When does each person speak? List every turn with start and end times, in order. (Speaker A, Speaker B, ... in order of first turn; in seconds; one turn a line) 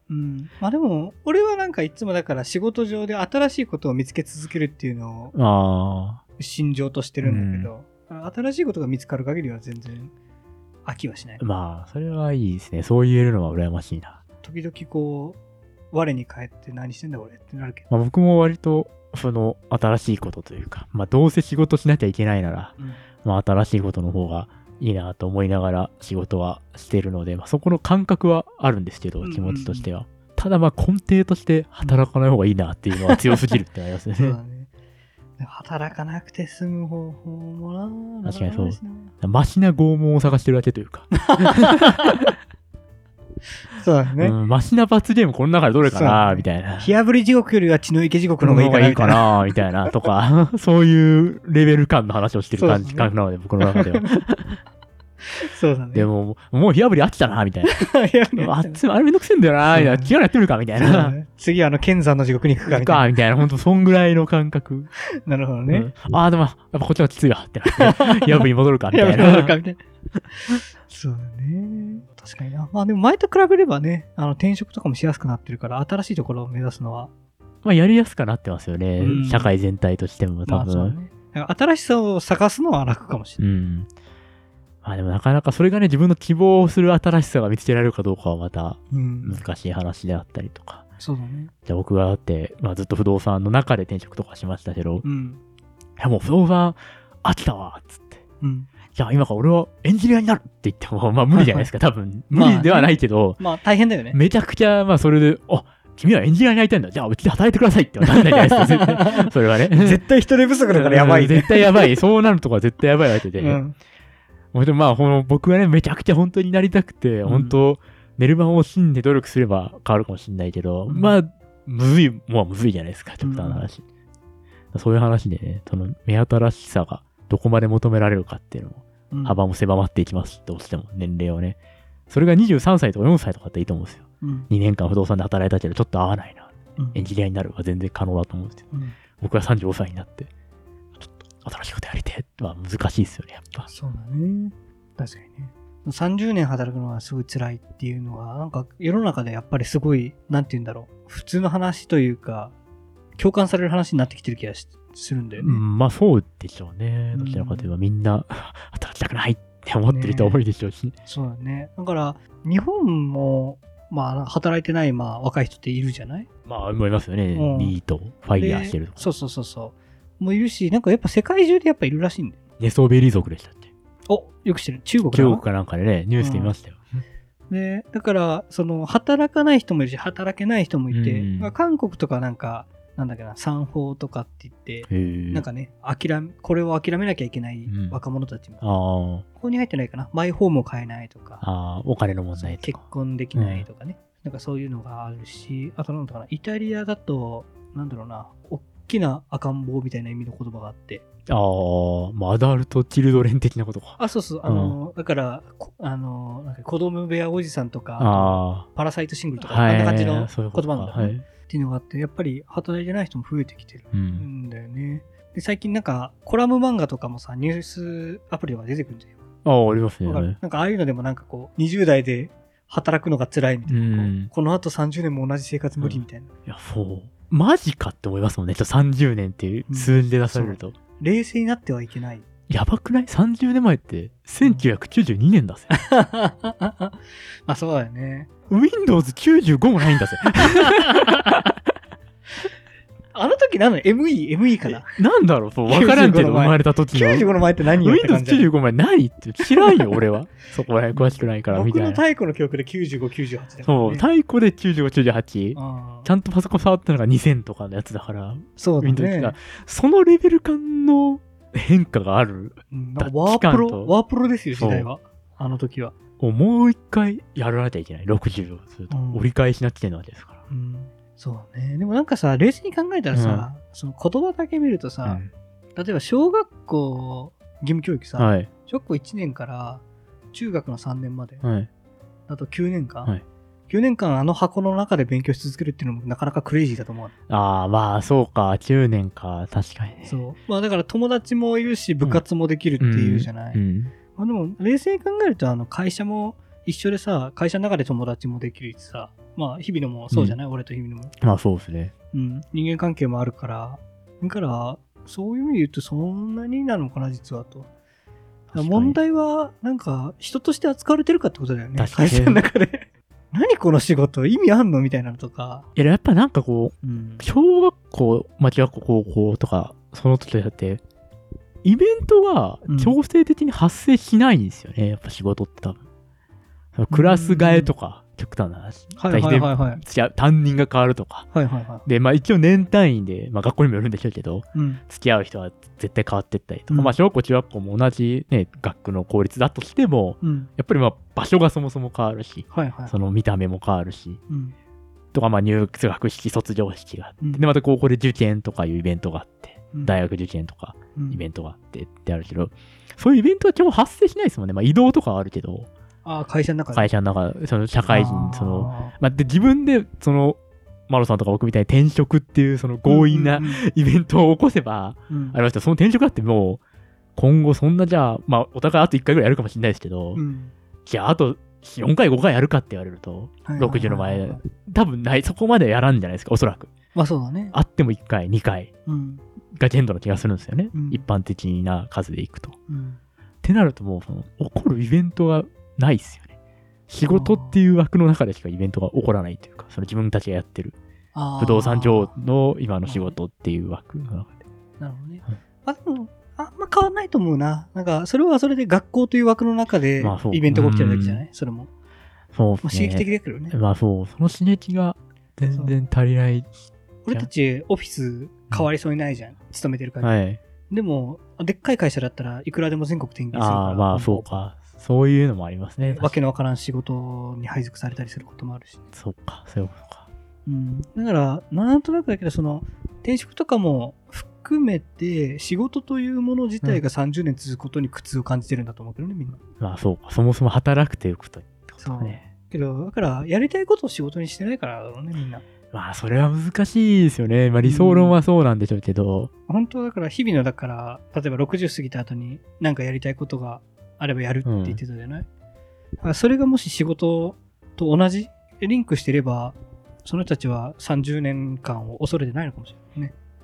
Speaker A: 0.1-5.3
Speaker B: 5.3-6.2
Speaker A: 6.4-10.1
Speaker B: 7.2-7.7
Speaker A: 10.9-11.4
Speaker B: 11.4-14.2
Speaker A: 14.4-15.4
Speaker A: 15.9-17.9
Speaker B: 17.9-34.4
Speaker A: 22.8-23.0
Speaker A: 29.2-29.9
Speaker A: 34.1-34.7
Speaker A: 35.4-39.1
Speaker B: 38.2-41.9
Speaker A: 41.3-42.1
Speaker A: 43.8-44.4
Speaker B: 44.2-46.9
Speaker A: 45.8-49.4
Speaker B: 48.4-54.6
Speaker A: 52.6-53.1
Speaker A: 53.6-54.1
Speaker A: 55.4-56.1
Speaker B: 55.9-57.8
Speaker A: 57.7-58.8
Speaker B: 58.4-61.2
Speaker A: 59.7-60.1
Speaker A: 60.8-63.2
Speaker B: 62.6-64.9
Speaker A: 65.1-65.9
Speaker B: 65.7-69.6
Speaker A: 67.8-69.8
Speaker A: 70.4-77.1
Speaker B: 77.6-81.0
Speaker A: 79.0-79.5
Speaker A: 80.5-83.4
Speaker B: 83.4-83.9
Speaker B: 84.8-90.8
Speaker A: 88.9-89.4
Speaker A: 91.0-91.5
Speaker B: 91.7-95.0
Speaker A: 95.0-95.4
Speaker B: 96.0-98.2
Speaker A: 98.4-98.7
Speaker B: 98.9-103.4
Speaker A: 101.3-101.7
Speaker A: 102.3-104.2
Speaker B: 104.1-110.0
Speaker A: 108.0-112.0
Speaker B: 110.7-113.6
Speaker A: 113.3-113.8
Speaker B: 114.5-123.8
Speaker A: 117.3-117.6
Speaker A: 120.9-121.2
Speaker A: 123.2-123.7
Speaker B: 124.7-131.6
Speaker A: 129.1-129.4
Speaker B: 132.1-138.6
Speaker A: 134.2-134.5
Speaker B: 139.2-140.3
Speaker B: 141.0-143.7
Speaker A: 143.7-152.5
Speaker A: 153.2-155.6
Speaker B: 155.4-160.9
Speaker A: 157.1-157.7
Speaker A: 159.9-160.4
Speaker A: 161.1-166.3
Speaker B: 166.5-169.1
Speaker A: 167.3-167.8
Speaker A: 168.4-172.4
Speaker B: 172.6-173.7
Speaker A: 174.1-175.4
Speaker B: 175.1-176.8
Speaker A: 176.2-176.5
Speaker A: 177.5-188.6
Speaker B: 180.9-181.5
Speaker B: 184.9-185.4
Speaker B: 187.7-188.0
Speaker B: 188.6-189.2
Speaker A: 189.4-191.4
Speaker B: 191.4-192.8
Speaker A: 192.4-201.0
Speaker B: 193.3-193.7
Speaker B: 201.3-204.8
Speaker A: 204.0-219.2
Speaker B: 208.0-208.7
Speaker B: 209.4-211.2
Speaker B: 213.9-214.2
Speaker B: 219.4-220.4
Speaker A: 220.1-226.3
Speaker B: 223.7-224.3
Speaker B: 225.8-230.8
Speaker A: 229.7-232.2
Speaker B: 232.5-235.7
Speaker A: 235.7-238.3
Speaker B: 238.5-241.4
Speaker A: 240.5-241.0
Speaker A: 243.1-244.9
Speaker B: 244.7-252.0
Speaker A: 245.7-248.5
Speaker A: 249.4-250.0
Speaker A: 250.9-254.1
Speaker B: 253.7-263.9
Speaker A: 255.6-256.1
Speaker A: 258.6-259.4
Speaker A: 262.7-265.9
Speaker B: 264.5-264.9
Speaker B: 266.2-270.4
Speaker A: 268.9-269.2
Speaker A: 270.5-275.2
Speaker B: 273.1-273.5
Speaker B: 275.1-275.3
Speaker A: 275.8-281.4
Speaker B: 278.2-278.5
Speaker B: 281.4-281.7
Speaker A: 282.3-283.1
Speaker A: 283.7-287.1
Speaker B: 287.3-290.1
Speaker A: 290.1-293.6
Speaker B: 292.8-293.9
Speaker A: 294.2-301.1
Speaker B: 300.1-300.4
Speaker B: 301.2-301.9
Speaker A: 302.1-307.7
Speaker B: 308.5-309.0
Speaker A: 308.6-315.7
Speaker B: 311.8-312.4
Speaker B: 315.8-320.8
Speaker A: 316.8-317.2
Speaker B: 321.6-325.8
Speaker A: 322.7-323.0
Speaker B: 326.8-331.3
Speaker A: 326.9-327.7
Speaker A: 329.0-329.8
Speaker A: 331.3-331.9
Speaker B: 331.9-344.2
Speaker A: 334.6-334.8
Speaker A: 340.2-340.5
Speaker A: 342.5-343.0
Speaker A: 344.3-344.6
Speaker B: 345.1-355.7
Speaker A: 351.0-351.2
Speaker A: 356.1-356.9
Speaker B: 356.7-366.6
Speaker A: 357.9-358.9
Speaker A: 362.9-363.6
Speaker A: 365.1-365.4
Speaker B: 367.2-370.2
Speaker A: 370.1-370.5
Speaker B: 370.9-376.7
Speaker A: 373.4-374.4
Speaker A: 376.9-377.6
Speaker B: 377.5-378.7
Speaker A: 378.9-379.2
Speaker B: 379.6-382.6
Speaker A: 380.7-381.0
Speaker A: 382.7-383.0
Speaker B: 383.4-386.3
Speaker B: 386.9-390.8
Speaker A: 387.1-387.6
Speaker A: 391.1-392.1
Speaker B: 391.4-394.4
Speaker A: 392.9-393.1
Speaker A: 394.8-401.7
Speaker B: 400.0-401.2
Speaker B: 402.3-406.5
Speaker A: 402.6-403.6
Speaker A: 405.5-405.9
Speaker A: 407.1-410.1
Speaker B: 410.0-410.4
Speaker A: 410.7-414.3
Speaker B: 413.3-416.1
Speaker A: 415.9-418.8
Speaker B: 418.9-420.0
Speaker A: 420.5-429.4
Speaker B: 429.6-432.3
Speaker A: 431.8-435.4
Speaker B: 435.7-439.3
Speaker A: 437.6-438.2
Speaker A: 439.5-445.3
Speaker B: 444.4-444.8
Speaker A: 446.0-453.1